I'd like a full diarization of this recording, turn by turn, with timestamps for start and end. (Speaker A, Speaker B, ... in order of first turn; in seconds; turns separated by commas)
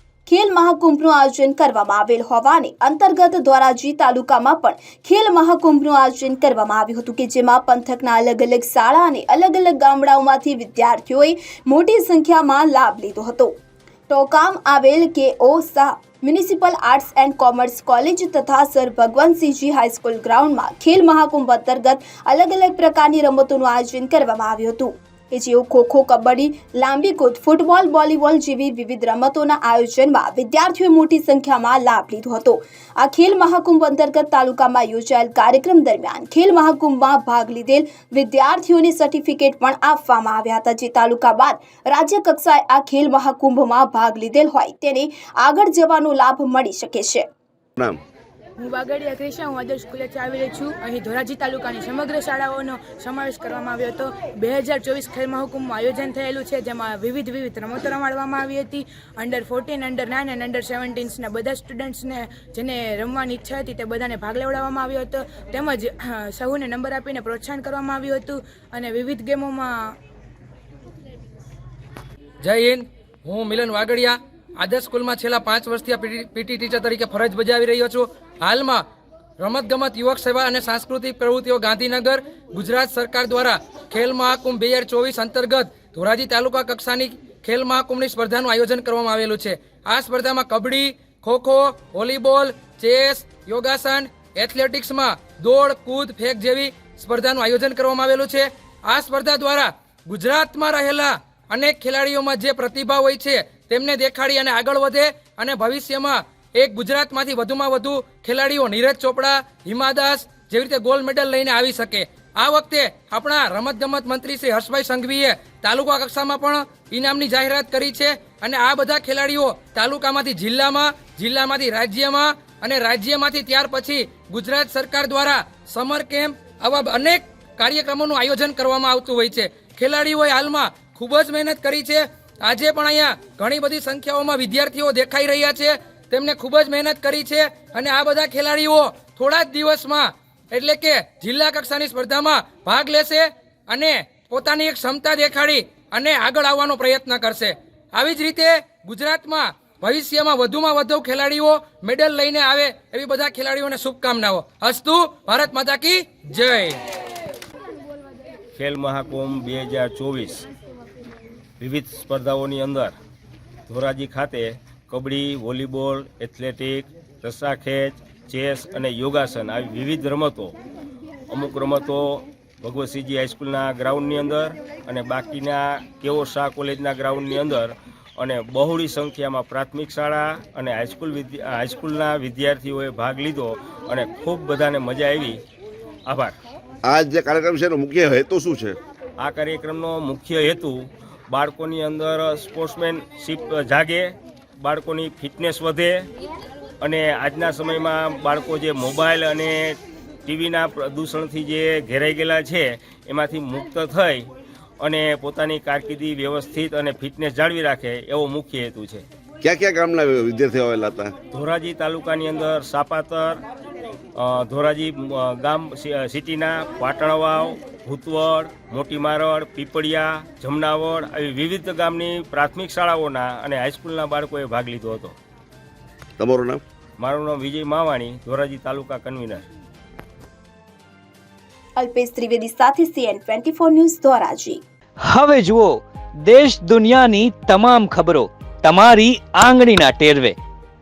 Speaker A: 0.2-13.5, Speaker A: 14.1-47.2, Speaker B: 48.6-69.7, Speaker C: 72.4-78.8, Speaker C: 79.4-156.8, Speaker D: 158.5-160.4, Speaker D: 161.6-162.9, Speaker D: 163.7-170.5, Speaker D: 171.3-185.4, Speaker D: 186.1-186.3, Speaker E: 186.8-188.8, Speaker D: 189.2-190.8, Speaker D: 191.3-196.1, Speaker D: 196.8-204.3, Speaker D: 204.8-209.0, Speaker E: 209.4-211.1, Speaker D: 211.3-213.4, Speaker D: 214.2-225.2, Speaker E: 226.2-226.6, Speaker D: 227.0-229.4, Speaker A: 231.8-234.6, Speaker F: 235.0-240.4